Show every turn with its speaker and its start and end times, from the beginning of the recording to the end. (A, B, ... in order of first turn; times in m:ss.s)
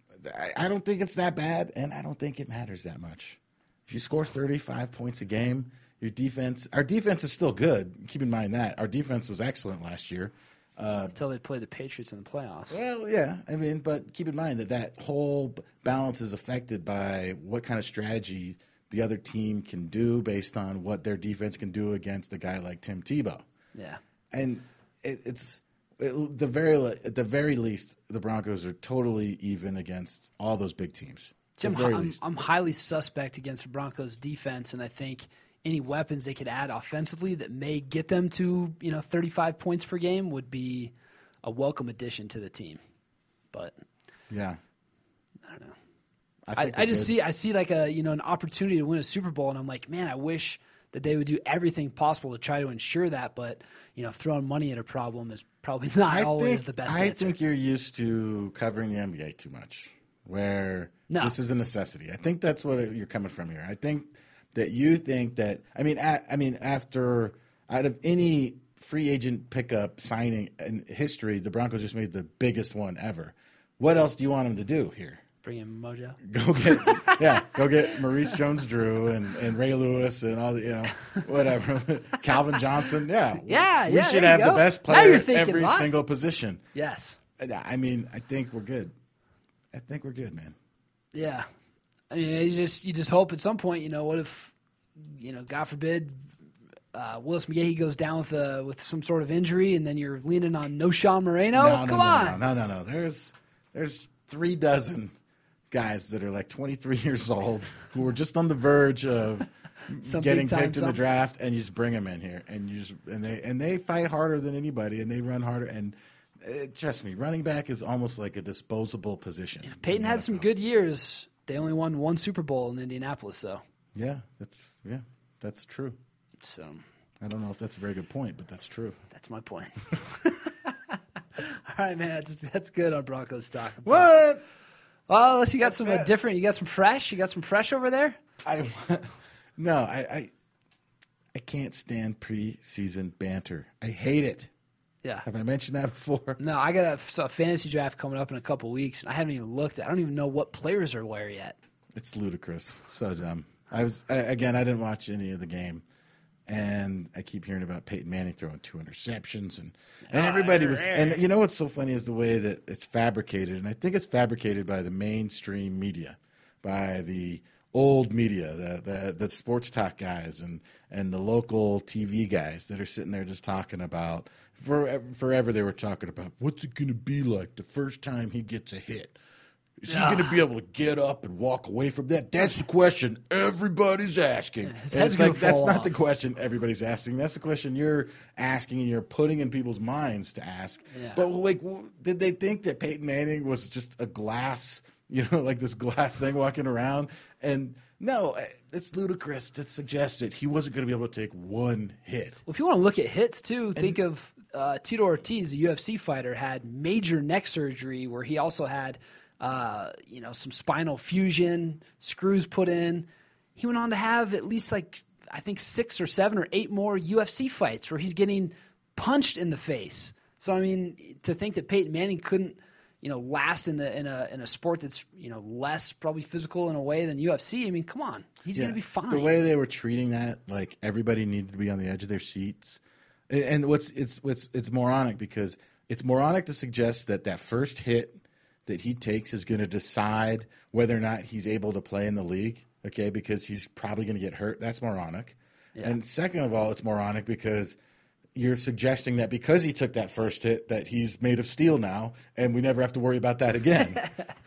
0:00.2-0:11.1 A
0:11.1-0:12.8 B
0:12.7-0:23.4 A
0:23.7-0:24.0 B
0:24.3-0:32.2 A
0:31.6-0:40.9 B
0:41.4-0:42.8 B
0:44.3-0:44.6 A
0:45.4-0:45.7 B
0:46.4-0:47.1 A
0:46.5-0:57.4 B
0:56.1-1:15.2 A
1:01.1-1:01.4 B
1:15.4-1:17.5 B
1:16.2-1:26.6 A
1:23.4-1:26.0 B
1:26.7-1:27.2 B
1:27.4-1:28.9 A
1:29.7-1:30.5 A
1:31.1-1:31.5 B
1:32.1-1:36.2 B
1:36.9-1:42.4 B
1:41.5-1:45.1 A
1:45.7-2:00.5 A
1:50.0-1:51.0 B
1:59.6-2:03.6 B
2:03.9-2:06.0 A
2:06.4-2:06.8 B
2:07.2-2:09.0 A
2:09.1-2:14.2 B
2:13.8-2:14.4 A
2:15.1-2:18.2 B
2:15.6-2:16.1 A
2:18.4-2:20.3 A
2:21.3-2:24.5 A
2:25.2-2:26.4 A
2:26.4-2:31.6 B
2:31.9-2:35.8 A
2:36.5-2:59.2 A
2:40.1-2:41.2 B
2:59.8-3:22.4 A
2:59.9-3:00.4 B
3:04.6-3:05.9 B
3:10.9-3:11.2 B
3:22.5-3:49.4 B
3:48.5-4:07.8 A
4:08.3-4:14.0 A